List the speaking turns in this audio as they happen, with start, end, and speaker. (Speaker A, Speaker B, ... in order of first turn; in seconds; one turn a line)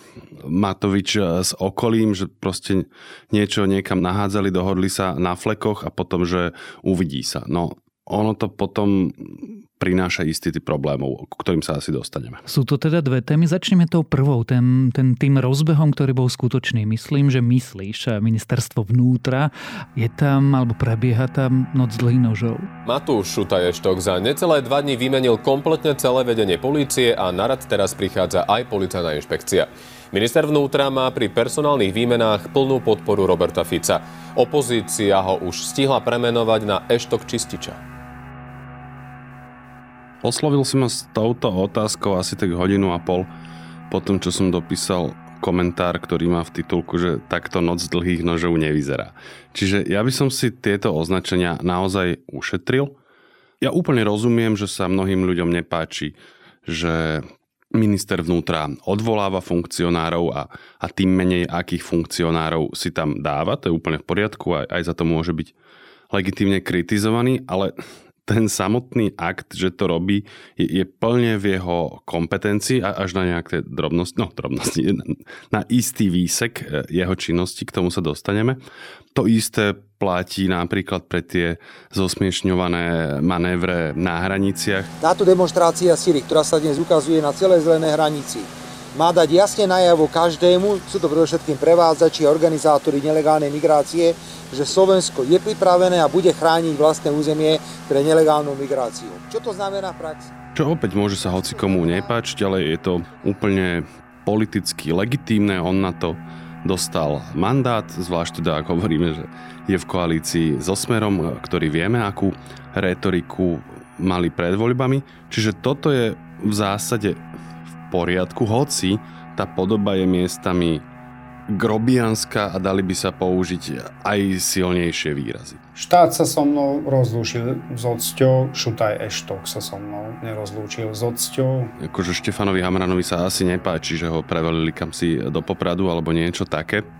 Speaker A: 0.4-12.4
Speaker B: 12.4-22.7
Speaker C: 22.9-37.8
Speaker A: 40.2-43.3
Speaker A: 43.9-52.9
Speaker A: 53.6-56.1
Speaker A: 56.6-65.5
Speaker A: 66.1-67.7
Speaker A: 68.2-78.6
Speaker A: 79.1-84.9
Speaker D: 85.0-100.3
Speaker A: 100.5-117.2
Speaker A: 117.9-120.8
Speaker A: 121.5-125.6
Speaker E: 125.8-131.7
Speaker A: 131.8-136.8